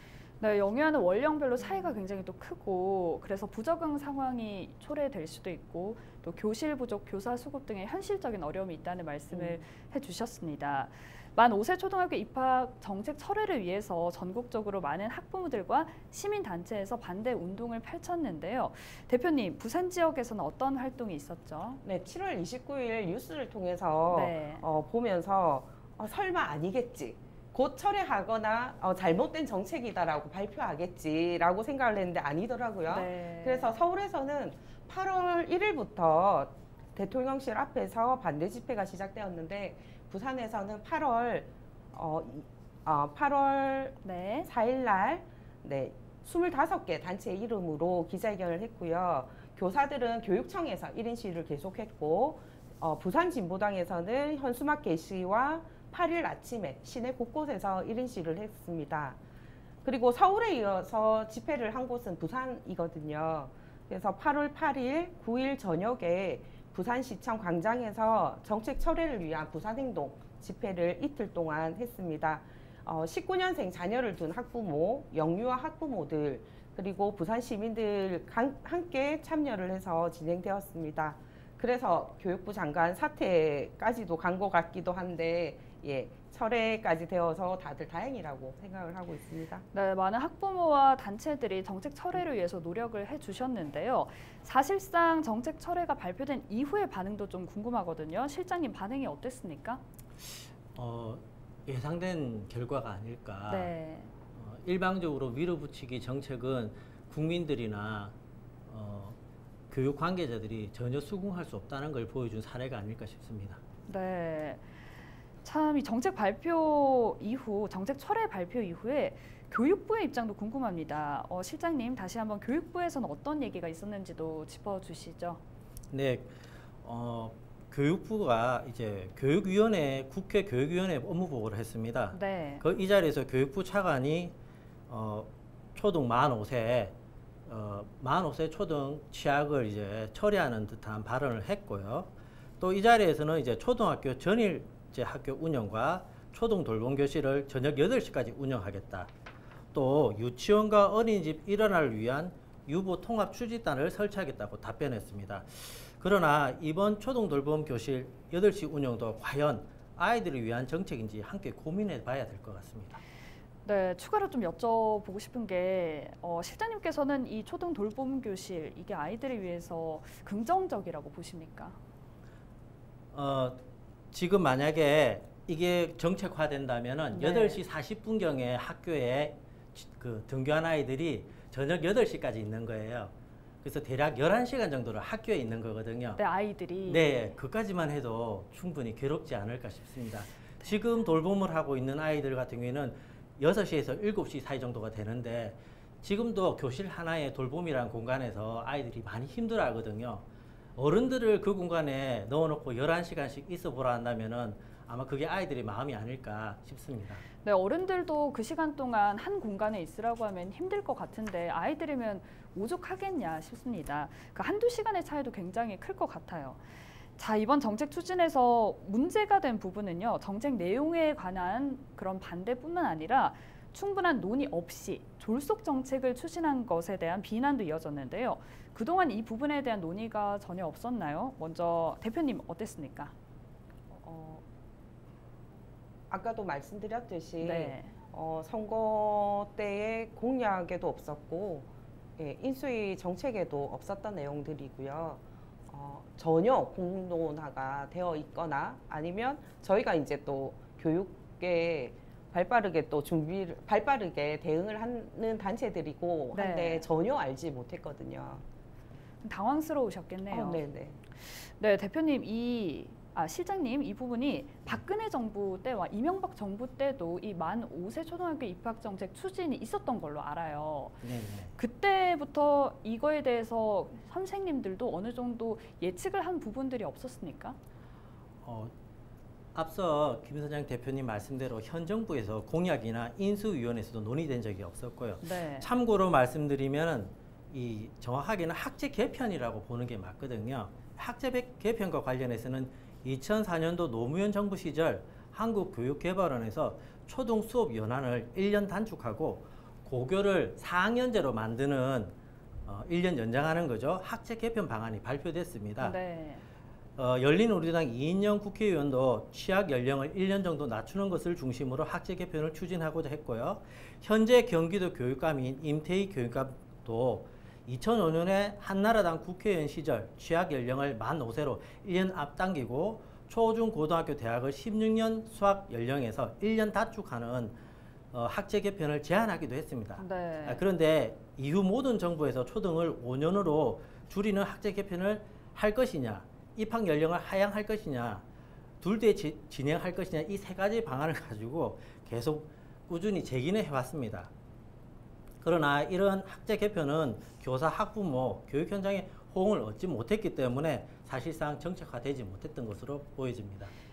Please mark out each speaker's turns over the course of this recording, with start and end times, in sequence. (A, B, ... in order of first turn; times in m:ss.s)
0:00.4-0:21.8 A
0:01.6-0:01.9 B
0:09.3-0:09.6 B
0:21.8-0:59.2 B
0:24.1-0:24.6 A
0:32.9-0:33.8 A
0:44.0-0:44.5 A
0:59.8-1:29.6 B
1:29.7-1:39.8 A
1:40.2-1:43.7 C
1:43.5-1:44.1 A
1:44.3-1:48.1 C
1:48.7-1:49.2 C
1:49.7-1:53.6 C
1:53.9-1:54.6 A
1:55.4-2:05.4 A
2:05.9-2:14.4 C
2:12.1-2:12.6 A
2:14.9-2:16.9 C
2:17.5-2:29.1 C
2:29.7-2:43.0 C
2:43.6-2:51.8 A
2:53.1-2:53.6 C
2:54.1-3:06.2 C
2:57.1-2:57.6 A
3:06.2-3:07.3 A
3:06.9-3:20.2 C
3:20.8-3:27.2 C
3:27.4-3:36.6 A
3:37.2-3:53.1 A
3:53.9-3:54.4 B
3:56.1-4:01.7 B
3:57.4-3:57.9 A
4:02.2-4:18.4 B
4:16.3-4:16.9 A
4:19.2-4:20.6 A
4:20.3-4:21.0 B
4:21.2-4:31.0 A
4:31.0-4:31.5 C
4:31.6-4:37.6 A
4:38.4-4:38.7 C
4:39.5-5:02.1 C
4:45.2-4:45.7 A
5:02.7-5:06.0 C
5:05.8-5:06.5 A
5:07.0-5:27.6 C
5:28.1-5:38.2 C
5:30.0-5:30.6 A
5:38.8-5:44.3 C
5:45.4-5:53.7 C